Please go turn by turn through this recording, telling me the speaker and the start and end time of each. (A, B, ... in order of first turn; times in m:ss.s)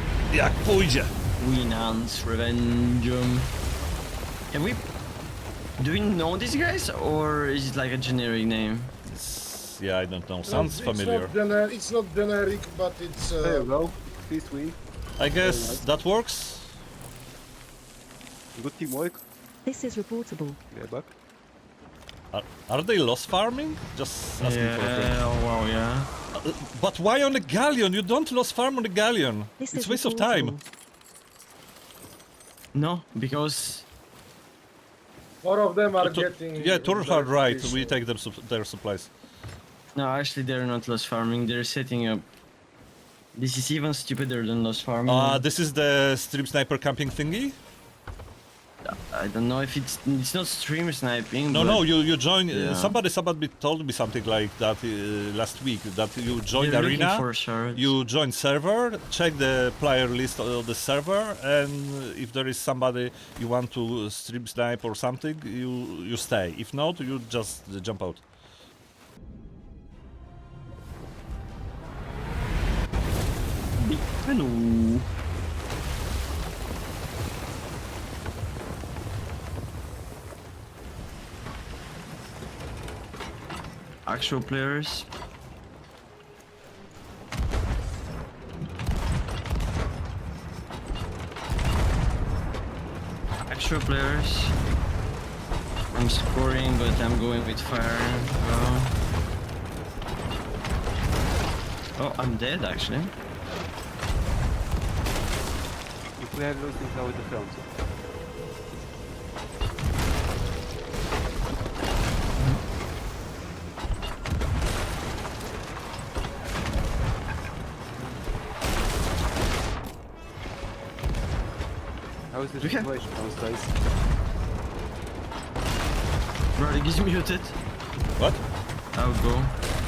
0:00.3-0:01.1 A
0:01.4-0:03.5 B
0:04.5-0:04.8 B
0:05.8-0:08.9 B
0:09.0-0:11.3 A
0:10.5-0:13.7 C
0:13.4-0:14.8 D
0:15.2-0:16.8 A
0:15.4-0:15.8 D
0:18.6-0:19.2 D
0:19.7-0:20.6 E
0:20.7-0:21.1 D
0:22.3-0:25.2 A
0:24.4-0:26.1 B
0:26.4-0:30.6 A
0:29.6-0:30.6 E
0:32.7-0:33.8 B
0:35.4-0:38.0 C
0:36.0-0:39.1 A
0:40.0-0:42.2 B
0:43.4-0:45.4 B
0:45.1-0:47.6 A
0:48.8-0:51.8 B
0:51.5-1:08.2 A
0:52.5-0:53.0 B
0:56.5-0:57.9 B
1:13.8-1:15.1 B
1:24.1-1:25.1 B
1:33.5-1:34.6 B
1:35.9-1:38.9 B
1:42.0-1:43.1 B
1:46.2-1:47.7 D
2:02.3-2:03.8 D
2:02.6-2:02.9 B
2:06.6-2:07.6 B
2:09.0-2:09.5 B